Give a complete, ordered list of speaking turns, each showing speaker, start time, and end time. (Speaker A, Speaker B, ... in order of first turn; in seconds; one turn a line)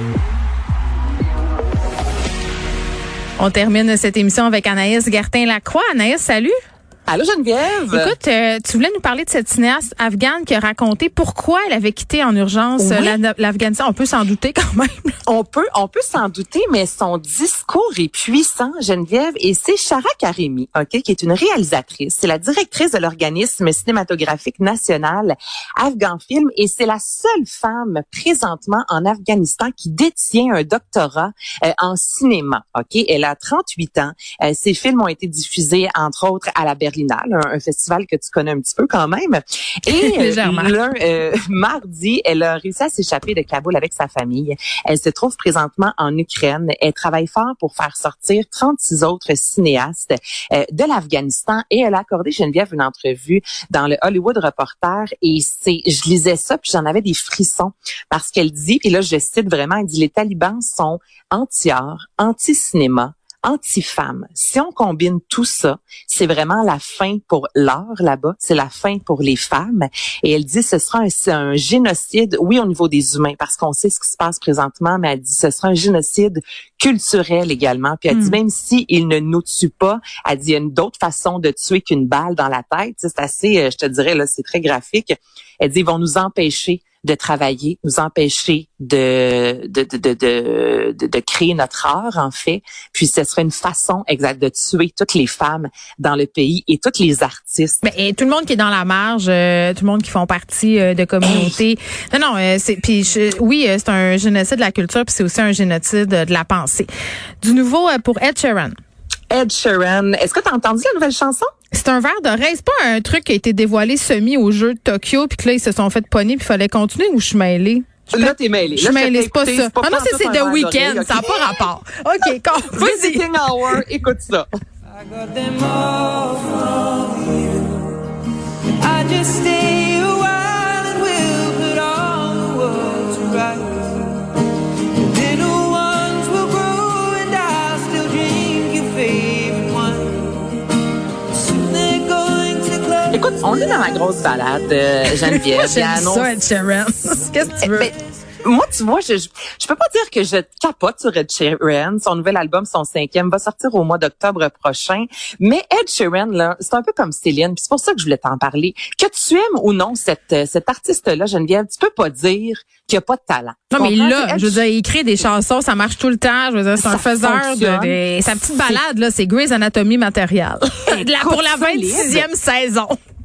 Speaker A: 3.4-6.5
Speaker B: 7.1-8.1
Speaker A: 7.9-15.1
Speaker B: 12.8-13.2
Speaker B: 15.3-97.8
Speaker A: 39.9-40.7
Speaker A: 78.1-78.4
Speaker A: 97.8-106.9
Speaker B: 101.2-101.6
Speaker A: 107.4-108.7
Speaker B: 109.3-111.5
Speaker A: 111.7-123.3
Speaker B: 118.1-121.6
Speaker B: 122.6-124.5
Speaker C: 125.0-127.9
Speaker C: 128.8-140.5
Speaker C: 141.3-143.3
Speaker B: 143.1-146.3
Speaker A: 145.2-147.9
Speaker B: 147.6-147.9
Speaker B: 148.4-164.6
Speaker A: 163.7-173.0
Speaker B: 166.8-168.0
Speaker B: 168.5-168.8
Speaker B: 170.9-172.3